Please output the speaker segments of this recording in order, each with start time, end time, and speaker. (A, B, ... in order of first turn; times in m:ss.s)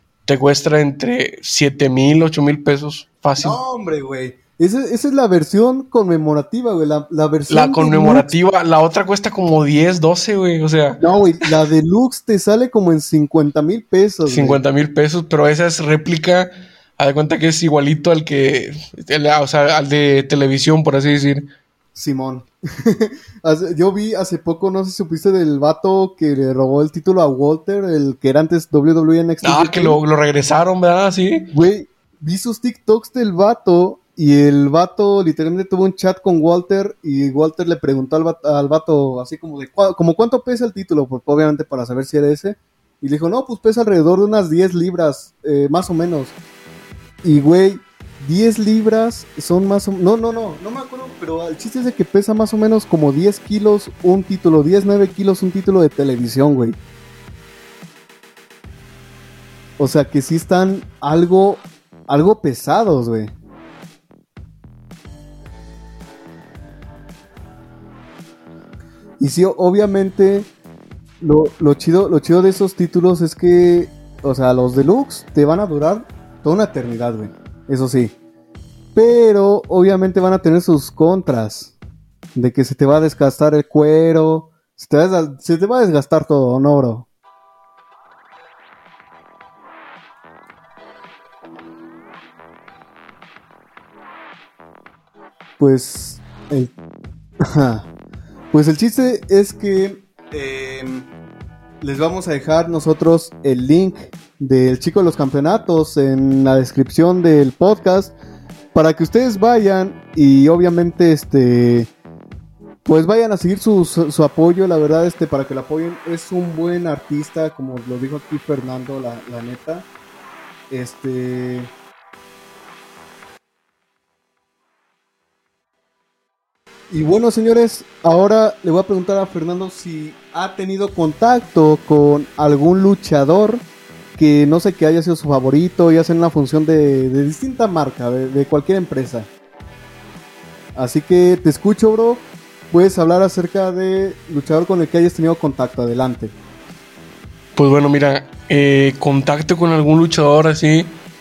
0:00.3-0:03.6 A
0:03.4-0:08.3 B
0:07.5-0:11.5 A
0:11.0-0:14.6 B
0:14.3-0:21.5 A
0:22.0-0:30.0 B
0:29.4-0:31.5 A
0:31.5-0:46.3 B
0:47.2-0:56.8 B
0:59.8-1:03.3 B
1:09.2-1:10.5 B
1:11.2-1:18.2 B
1:19.0-1:21.8 B
1:22.3-1:27.1 B
1:35.6-1:36.7 B
1:37.5-1:37.9 B
1:38.5-1:41.1 B
1:41.8-1:48.1 B
1:48.7-1:51.9 B
1:52.8-1:59.9 B
2:00.7-2:01.7 B
2:06.9-2:13.6 B
2:14.2-2:19.3 B
2:20.8-2:26.4 B
2:27.6-2:31.0 A